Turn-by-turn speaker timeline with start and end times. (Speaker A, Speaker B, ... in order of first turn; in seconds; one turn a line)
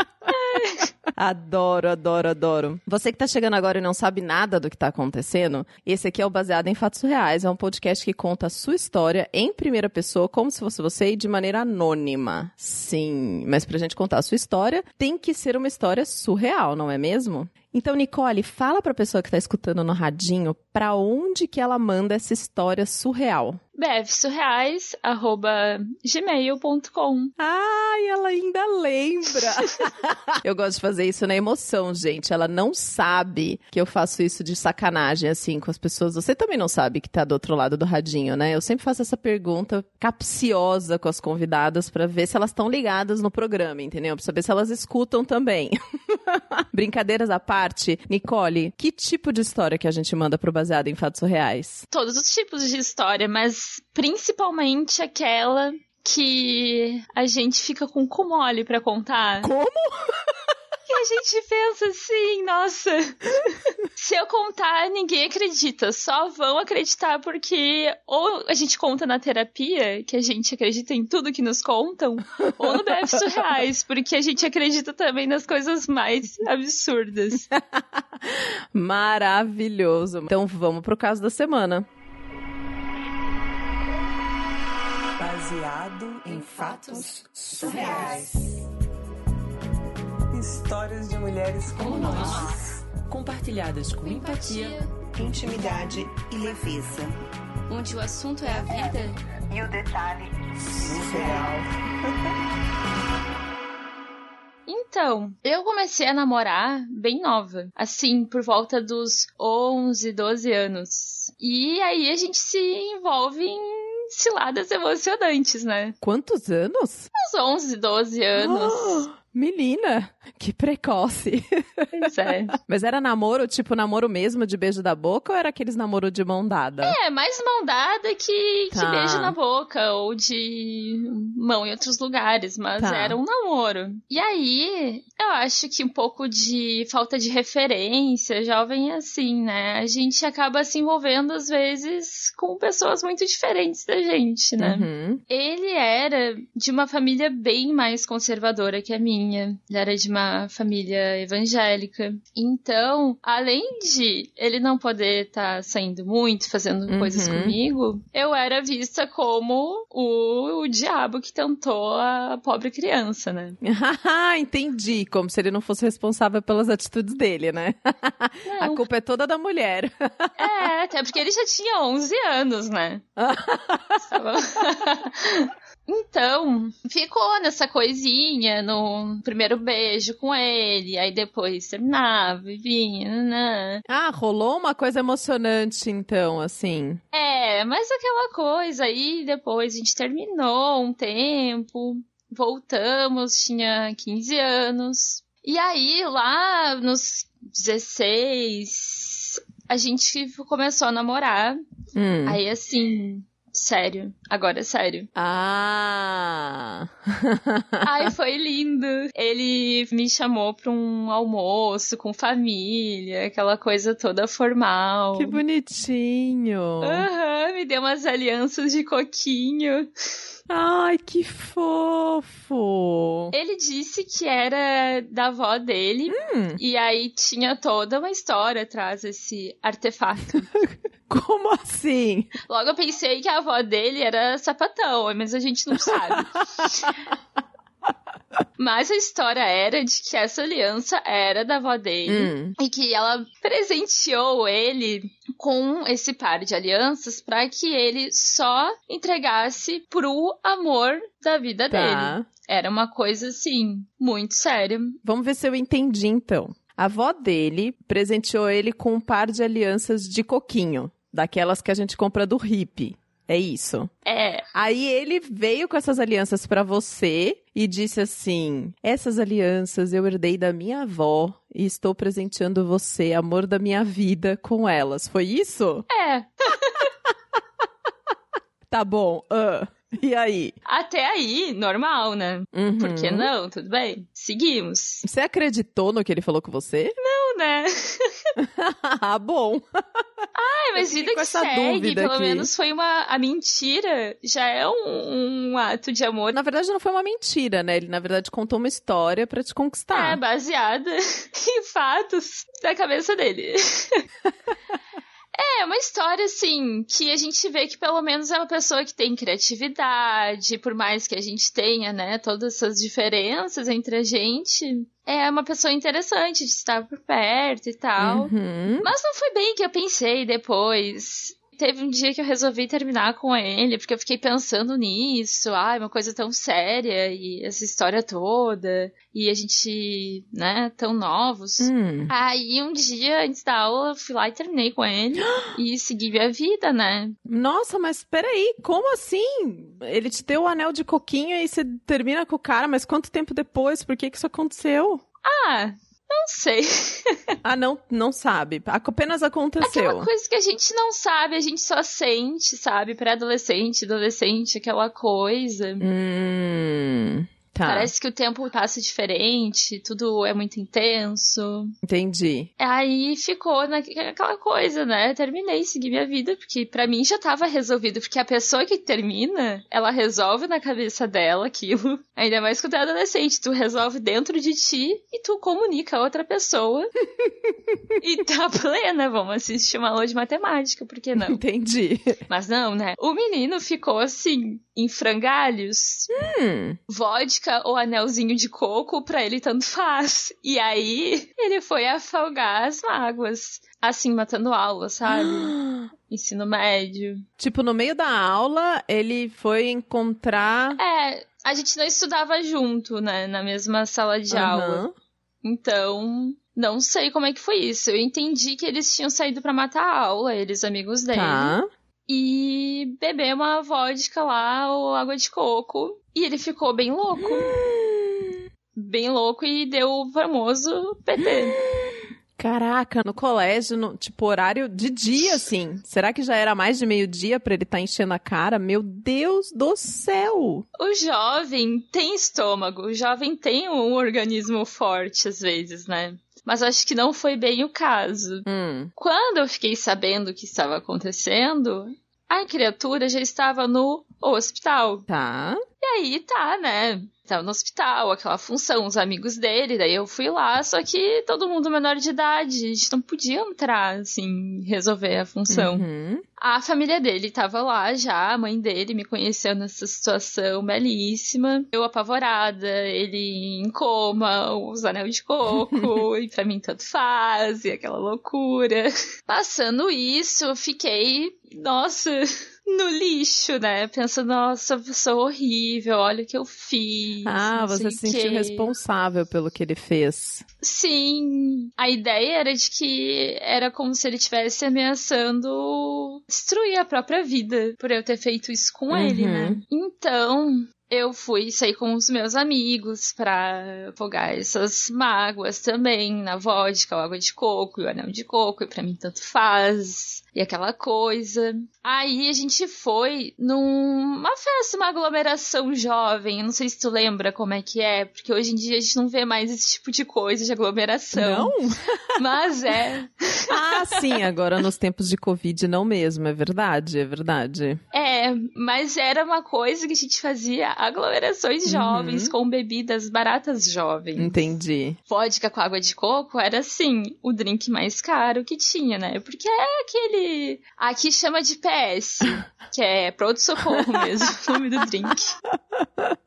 Speaker A: 0.3-0.9
Speaker B: 1.1-23.6
Speaker A: 23.8-27.3
Speaker B: 27.4-51.8
Speaker A: 51.9-59.5
Speaker B: 59.4-60.1
Speaker A: 60.9-77.5
Speaker B: 77.5-81.8
Speaker C: 85.2-88.6
Speaker D: 86.6-87.1
Speaker D: 87.6-88.2
Speaker C: 90.3-93.1
Speaker D: 91.8-92.5
Speaker D: 93.1-94.8
Speaker A: 94.0-94.9
Speaker C: 95.1-97.2
Speaker D: 97.7-99.0
Speaker A: 97.7-99.1
Speaker C: 99.5-101.7
Speaker A: 104.7-116.0
Speaker B: 116.0-117.1
Speaker A: 117.1-119.1
Speaker B: 118.3-127.0
Speaker A: 121.9-122.5
Speaker A: 126.8-163.6
Speaker B: 128.7-129.3
Speaker B: 132.8-133.2
Speaker B: 144.6-145.2
Speaker B: 156.9-157.6
Speaker B: 163.6-170.6
Speaker A: 168.4-168.8
Speaker A: 170.4-173.0
Speaker B: 173.2-174.1
Speaker A: 174.0-183.8
Speaker B: 183.9-187.0
Speaker A: 187.1-201.6
Speaker B: 201.9-202.4
Speaker A: 202.2-205.1
Speaker B: 205.1-207.8
Speaker A: 207.8-215.4
Speaker B: 215.2-217.1
Speaker A: 216.8-219.9
Speaker B: 220.5-223.3
Speaker A: 223.3-230.5
Speaker B: 226.1-226.6
Speaker B: 230.6-232.3
Speaker A: 232.4-237.0
Speaker A: 238.6-255.0
Speaker B: 242.1-242.5
Speaker B: 251.7-252.2
Speaker B: 255.0-263.9
Speaker A: 264.0-264.4
Speaker B: 264.5-275.9
Speaker A: 275.9-276.9
Speaker B: 278.7-280.6
Speaker A: 280.6-285.0
Speaker B: 282.5-283.3
Speaker B: 285.0-287.0
Speaker A: 287.0-288.3
Speaker B: 288.4-290.0
Speaker A: 290.3-296.4
Speaker B: 290.8-292.5
Speaker B: 296.3-300.2
Speaker A: 299.9-304.0
Speaker A: 305.3-337.2
Speaker B: 318.0-318.9
Speaker B: 331.6-332.1
Speaker B: 335.2-335.5
Speaker B: 337.3-345.0
Speaker A: 345.2-347.3
Speaker B: 347.4-350.1
Speaker A: 349.6-355.9
Speaker B: 355.8-357.9
Speaker A: 357.6-361.7
Speaker B: 361.8-362.5
Speaker A: 362.6-376.9
Speaker A: 378.0-381.4
Speaker B: 381.2-382.2
Speaker A: 382.3-386.1
Speaker B: 386.1-386.8
Speaker A: 386.9-395.5
Speaker B: 395.1-395.9
Speaker A: 396.1-397.2
Speaker B: 397.4-400.8
Speaker A: 400.8-404.8
Speaker B: 404.3-404.9
Speaker A: 405.4-411.5
Speaker B: 411.1-411.7
Speaker A: 412.1-417.6
Speaker B: 417.2-418.4
Speaker A: 418.7-421.6
Speaker B: 421.6-430.6
Speaker A: 430.8-445.0
Speaker B: 438.4-438.9
Speaker B: 445.1-445.6
Speaker A: 445.8-455.8
Speaker B: 455.5-456.2
Speaker A: 456.4-478.7
Speaker B: 477.2-480.4
Speaker A: 480.6-511.5
Speaker B: 488.9-489.6
Speaker B: 511.1-512.1
Speaker A: 512.2-514.2
Speaker B: 513.5-517.8
Speaker A: 517.9-524.4
Speaker B: 521.7-522.3
Speaker B: 524.2-525.0
Speaker A: 525.1-535.3
Speaker B: 535.8-536.2